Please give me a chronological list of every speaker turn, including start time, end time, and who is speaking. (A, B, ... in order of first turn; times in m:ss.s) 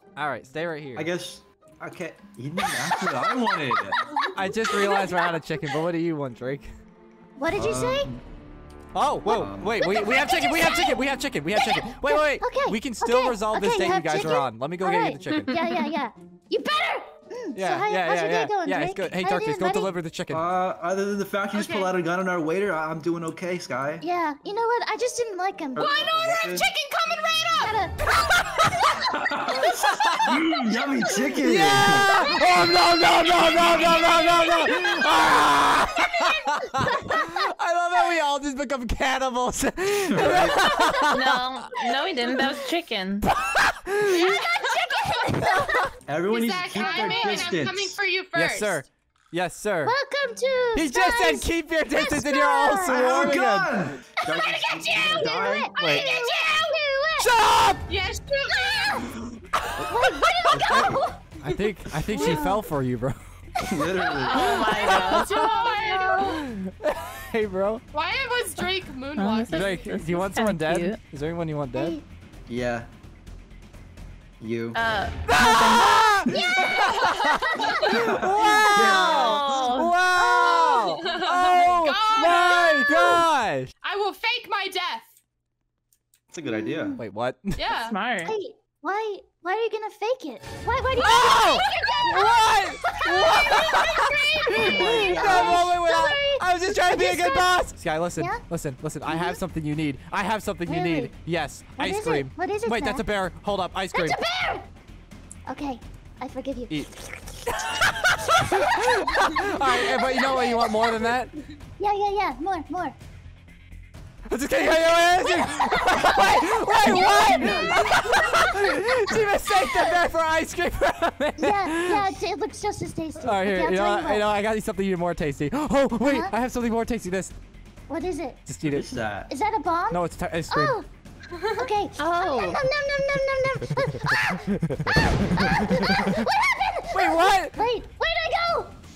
0:00.2-0:01.1 A
0:01.0-0:04.0 B
0:04.1-0:05.1 C
0:04.2-0:05.0 D
0:04.3-0:06.7 A
0:07.4-0:08.1 C
0:07.5-0:08.2 B
0:08.9-0:15.7 A
0:09.2-0:09.8 B
0:09.8-0:19.9 C
0:17.5-0:20.5 A
0:20.3-0:24.0 B
0:21.5-0:21.9 D
0:24.0-0:25.9 C
0:25.7-0:26.7 B
0:25.8-0:27.8 D
0:27.6-0:28.0 C
0:28.1-0:28.8 A
0:29.1-0:32.1 B
0:30.0-0:30.4 A
0:31.4-0:41.8 A
0:31.5-0:32.5 C
0:33.4-0:35.2 D
0:36.2-0:37.4 C
0:40.1-0:40.6 B
0:40.4-0:41.0 C
0:41.1-0:43.2 E
0:43.3-0:44.3 A
0:44.0-0:45.9 C
0:45.5-0:45.8 A
0:46.1-0:48.0 B
0:46.3-0:48.8 D
0:46.8-0:47.5 C
0:48.3-0:50.0 A
0:49.8-0:53.3 C
0:50.7-0:53.8 A
0:52.8-0:55.7 B
0:54.3-0:56.8 D
0:55.0-0:57.3 C
0:55.8-0:56.1 A
0:57.2-0:57.9 A
0:57.9-0:59.1 D
0:58.5-0:59.1 C
0:59.9-1:01.2 C
1:00.5-1:01.0 B
1:00.6-1:03.2 A
1:01.4-1:02.5 D
1:02.1-1:02.6 C
1:03.6-1:04.5 B
1:04.2-1:06.5 D
1:04.3-1:05.3 E
1:04.5-1:05.5 A
1:05.6-1:06.3 C
1:06.3-1:07.8 A
1:07.9-1:10.0 D
1:09.1-1:11.0 E
1:09.5-1:12.0 A
1:11.7-1:12.0 C
1:12.5-1:12.9 B
1:14.4-1:14.8 B
1:14.7-1:16.4 E
1:15.2-1:23.7 A
1:16.3-1:18.0 D
1:16.4-1:18.8 C
1:17.9-1:19.6 B
1:18.8-1:20.0 E
1:20.1-1:21.0 C
1:20.4-1:23.3 D
1:23.8-1:25.1 D
1:26.3-1:27.0 B
1:26.5-1:27.0 C
1:27.0-1:27.6 A
1:27.6-1:28.0 D
1:27.7-1:28.3 E
1:28.2-1:37.6 C
1:31.0-1:31.8 D
1:31.0-1:44.2 A
1:34.6-1:35.7 B
1:38.2-1:38.4 C
1:39.0-1:39.4 C
1:40.6-1:41.1 C
1:41.8-1:43.0 C
1:43.9-1:44.7 C
1:45.4-1:47.0 C
1:46.7-1:51.3 A
1:48.5-1:51.1 C
1:51.8-1:53.0 C
1:54.3-2:02.2 A
1:54.9-2:00.0 C
1:57.2-1:58.1 B
2:01.4-2:04.3 C
2:03.2-2:07.3 A
2:06.0-2:06.3 C
2:07.9-2:08.4 C
2:08.4-2:08.9 A
2:08.6-2:09.3 B
2:09.3-2:10.8 C
2:09.9-2:10.8 A
2:11.3-2:11.6 D
2:11.6-2:18.7 C
2:12.0-2:12.6 E
2:14.1-2:16.3 A
2:16.9-2:17.7 A